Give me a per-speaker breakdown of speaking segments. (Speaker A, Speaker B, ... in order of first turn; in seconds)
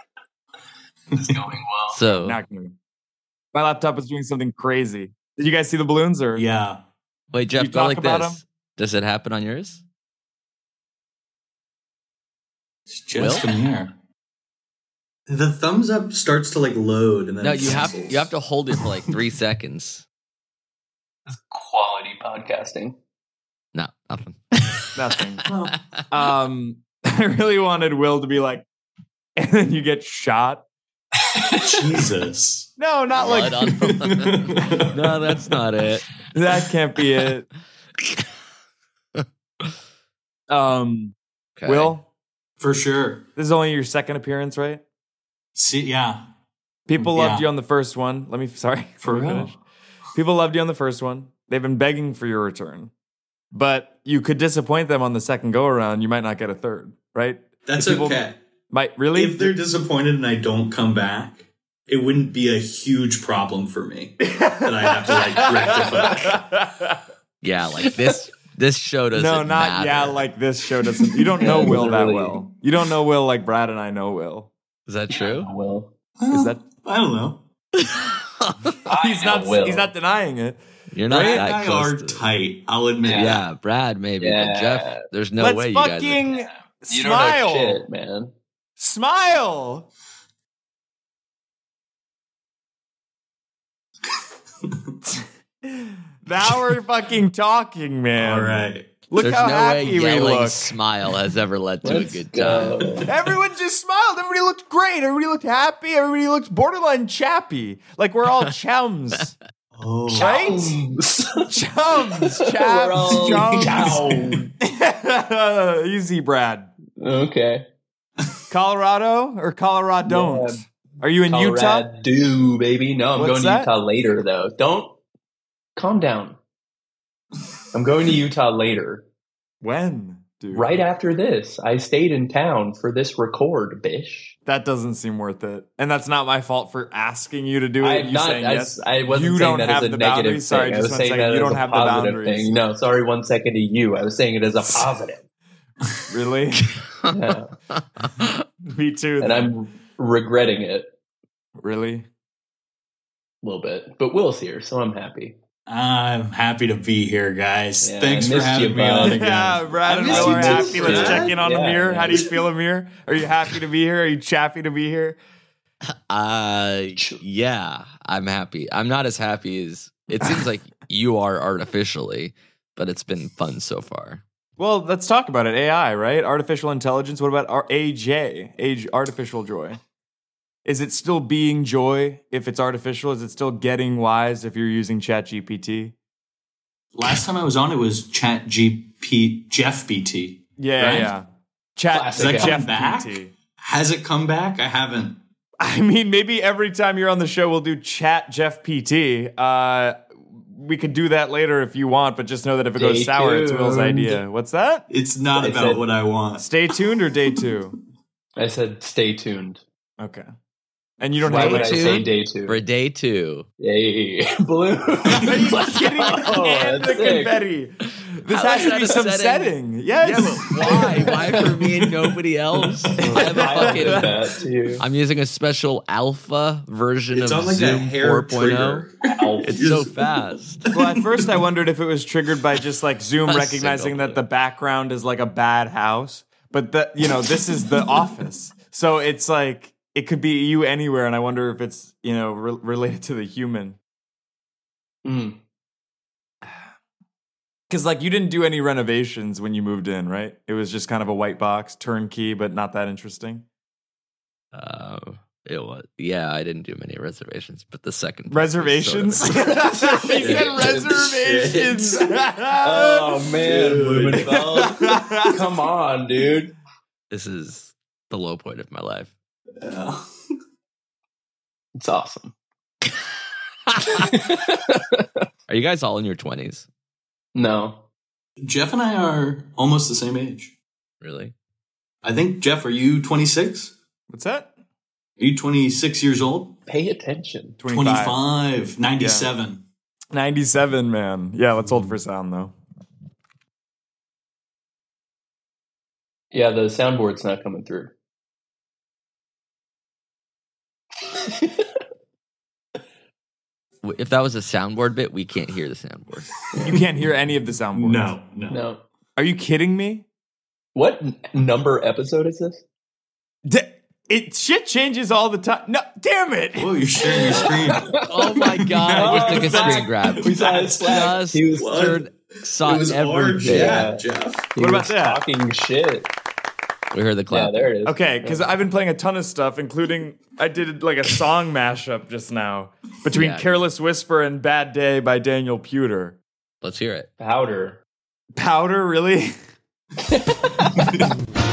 Speaker A: 1.2-2.0, 21.3-23.0, 71.4-72.4, 75.1-75.9, 78.9-79.9, 83.0-83.4, 84.2-85.0, 86.3-88.3, 101.8-103.1, 110.1-111.5, 112.3-114.5, 117.0-117.7, 120.0-120.6, 121.3-125.0, 125.8-126.4, 127.7-129.1, 130.5-134.4, 137.8-145.2, 147.1-147.5, 149.2-150.9, 153.4-155.4, 157.8-162.3, 167.0-167.2, 191.9-192.6, 202.8-204.2, 205.3-205.8, 208.4-209.6, 211.2-212.6, 213.6-217.4, 221.1-221.5, 223.0-224.8, 229.2-229.4, 245.1-245.4, 262.6-266.5, 271.8-272.3, 273.9-275.1, 277.4-277.8, 286.7-287.6, 296.3-297.9, 301.2-301.7, 308.5-308.8, 310.8-312.6, 317.1-318.0, 318.9-322.0, 323.4-326.1, 327.3-328.4, 337.2-337.8, 340.1-340.9
Speaker B: 1.9-2.4, 7.3-9.8, 13.2-13.5, 17.4-20.1, 23.7-24.9, 33.1-36.1, 39.2-39.7, 41.6-42.0, 67.4-70.3, 74.9-75.5, 77.8-78.7, 80.9-82.3, 83.2-86.2, 99.2-102.8, 166.1-174.2, 211.3-213.5, 218.3-224.1, 224.8-228.9, 229.4-230.6, 233.2-234.2, 254.5-259.8, 267.1-269.1, 275.5-276.7, 281.0-281.3, 303.8-306.3, 318.1-320.4, 320.9-323.9, 326.9-327.7, 333.1-333.6, 336.6-337.1
Speaker C: 2.1-2.8, 3.5-6.5, 7.5-8.4, 24.9-25.5, 26.1-28.7, 29.4-30.6, 32.8-33.8, 36.3-37.5, 40.5-42.0, 43.4-44.8, 46.9-49.6, 50.1-52.9, 53.5-59.5, 64.2-67.0, 69.1-74.5, 76.3-76.6, 78.9-81.5, 85.4-87.9, 88.8-89.9, 95.1-100.7, 103.1-109.3, 110.1-110.8, 111.5-114.0, 114.6-116.7, 118.5-121.9, 123.2-123.7, 129.6-130.9, 134.5-142.6, 146.1-146.7, 148.7-149.5, 151.6-152.1, 159.0-165.2, 174.6-179.8, 180.7-185.9, 190.6-193.3, 195.6-204.9, 206.4-207.8, 210.0-210.3, 211.0-212.1, 215.1-220.8, 223.0-224.1, 230.7-243.8, 247.7-253.4, 258.3-263.2, 264.2-265.4, 284.1-284.5, 287.6-288.2, 289.0-289.3, 290.1-292.5, 306.6-308.2, 309.2-310.1, 313.4-316.8, 324.6-325.2, 327.9-336.2, 338.4-339.3
Speaker D: 6.3-6.8, 12.9-13.9, 15.3-19.0, 25.5-25.8, 31.6-32.7, 34.0-35.0, 42.6-43.2, 45.6-46.2, 47.0-47.5, 49.0-49.6, 57.7-58.4, 59.1-66.4, 76.2-77.4, 81.1-83.4, 98.2-99.0, 109.8-110.4, 113.3-114.4, 155.7-161.3, 186.9-191.1, 192.2-195.2, 204.9-206.5, 227.1-229.9, 230.6-231.0, 260.2-262.1, 263.4-264.4, 269.6-270.0, 278.4-280.5, 282.0-283.7, 285.2-286.6, 287.7-289.6, 307.7-308.6, 316.6-318.1, 318.8-324.5